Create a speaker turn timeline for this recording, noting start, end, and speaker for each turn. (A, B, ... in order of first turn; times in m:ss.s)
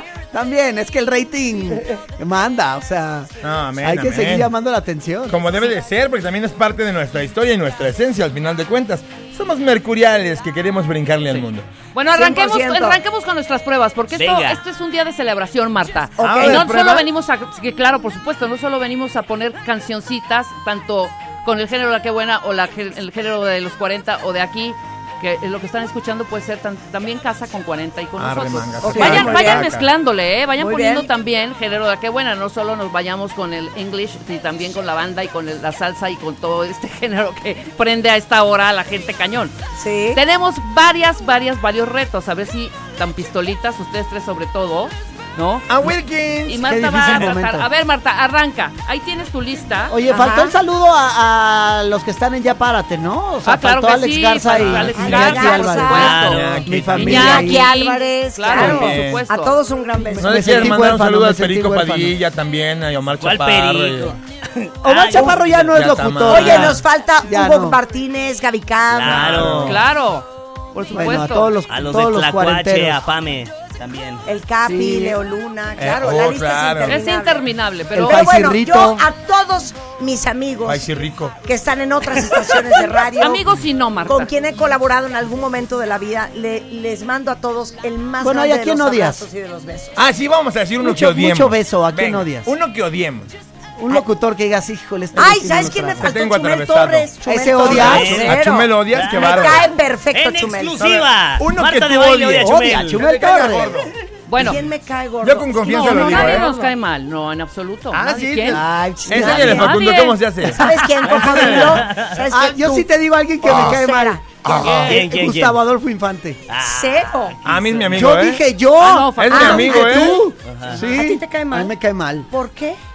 0:00.3-0:05.4 A
0:03.4-0:04.5 B
0:05.3-0:11.7 B
0:11.3-0:39.5 C
0:12.1-0:13.0 D
0:14.2-0:14.6 E
0:16.2-0:16.6 D
0:16.2-0:17.1 B
0:28.2-0:29.9 B
0:28.8-0:29.7 D
0:30.6-0:31.1 D
0:39.7-0:40.2 D
0:40.1-0:45.7 C
0:45.7-0:46.6 B
0:46.4-0:50.0 C
0:46.6-0:47.7 A
0:49.9-0:57.7 A
0:50.1-0:50.5 D
0:53.4-0:56.4 C
0:54.7-0:56.3 D
0:55.9-0:56.8 E
0:56.2-0:57.4 B
0:56.9-0:59.5 C
0:57.0-1:00.8 D
0:58.5-0:59.2 B
1:00.2-1:02.2 A
1:00.2-1:04.2 B
1:03.2-1:05.8 E
1:04.8-1:07.8 A
1:05.7-1:06.8 B
1:06.3-1:09.6 D
1:08.9-1:09.8 E
1:09.1-1:09.8 B
1:09.6-1:11.5 C
1:10.9-1:13.0 A
1:11.7-1:14.2 E
1:14.2-1:20.9 D
1:14.6-1:15.2 A
1:15.8-1:17.0 B
1:16.9-1:18.4 C
1:17.9-1:19.0 A
1:20.6-1:21.3 B
1:21.4-1:23.5 D
1:23.2-1:24.3 C
1:24.1-1:30.0 D
1:28.2-1:29.2 A
1:30.0-1:33.3 B
1:30.8-1:32.5 A
1:33.8-1:36.1 A
1:35.2-1:40.8 D
1:36.0-1:39.7 B
1:37.2-1:38.3 A
1:37.7-1:38.4 E
1:38.9-1:43.0 E
1:40.8-1:43.9 B
1:42.4-1:43.9 A
1:44.3-1:44.6 C
1:44.4-1:46.7 D
1:45.2-1:46.5 B
1:45.6-1:48.6 C
1:47.9-1:51.8 B
1:48.5-1:49.7 A
1:49.1-1:50.2 C
1:49.1-1:49.7 D
1:50.5-1:52.9 D
1:51.2-1:52.1 E
1:52.3-1:56.4 A
1:53.4-1:54.2 D
1:53.5-1:53.7 B
1:54.4-1:55.0 B
1:54.6-1:54.9 C
1:54.8-1:55.6 E
1:56.5-1:58.0 E
1:56.6-1:57.3 D
1:57.4-1:58.4 B
1:57.9-2:02.3 A
1:58.8-1:59.7 C
1:59.2-2:00.2 B
1:59.3-2:00.2 D
2:00.4-2:00.8 E
2:00.7-2:01.7 D
2:02.3-2:02.8 D